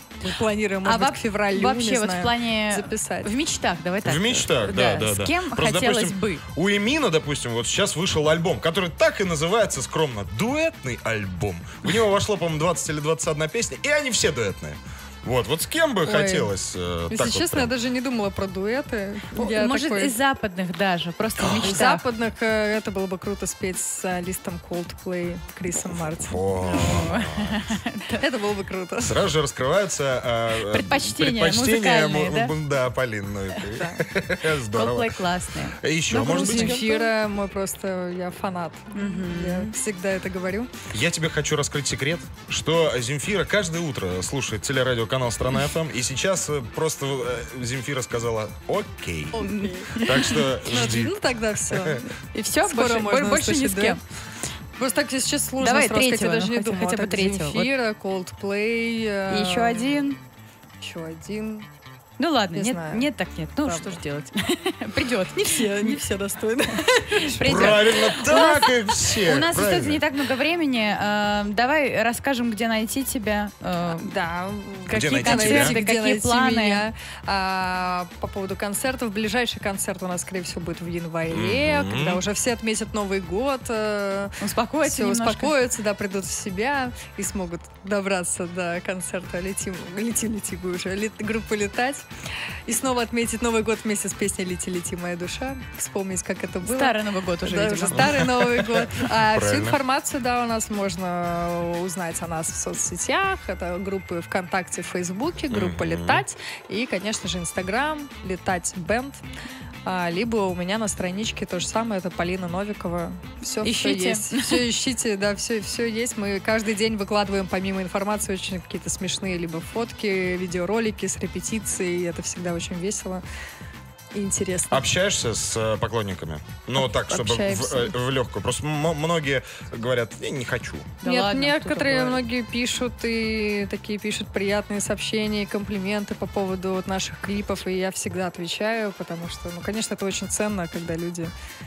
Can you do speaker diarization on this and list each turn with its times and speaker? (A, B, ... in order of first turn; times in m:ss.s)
0:00.2-0:03.3 A
0:00.8-0:06.4 B
0:04.0-0:17.7 C
0:16.0-0:16.5 A
0:17.1-0:20.1 A
0:19.4-0:22.0 B
0:21.6-0:27.2 A
0:25.8-0:27.6 C
0:26.6-0:28.2 B
0:28.1-0:29.2 A
0:29.0-0:35.2 C
0:30.6-0:32.5 B
0:33.8-0:34.0 A
0:34.7-0:37.1 B
0:35.8-0:36.8 C
0:36.1-0:40.7 A
0:38.9-0:39.7 B
0:40.9-0:51.1 C
0:49.3-0:52.1 A
0:49.4-0:50.4 B
0:51.7-0:52.0 C
0:52.3-0:54.0 B
0:52.6-0:54.0 A
0:54.8-1:00.1 A
0:55.6-0:57.7 B
0:59.3-1:00.2 B
1:00.8-1:01.7 A
1:02.2-1:06.0 B
1:02.5-1:03.1 A
1:03.6-1:04.0 A
1:05.4-1:08.1 A
1:07.0-1:14.1 B
1:07.4-1:10.0 C
1:13.8-1:32.0 A
1:14.9-1:16.8 B
1:14.9-1:15.8 C
1:21.3-1:22.2 C
1:24.4-1:25.5 B
1:32.7-1:49.2 A
1:36.6-1:38.2 B
1:38.0-1:39.8 C
1:45.5-1:46.2 C
1:49.8-2:03.2 A
1:53.6-1:54.6 B
2:04.1-2:04.8 A
2:04.7-2:11.0 C
2:06.8-2:07.9 A
2:11.0-2:12.2 B
2:11.0-2:21.3 A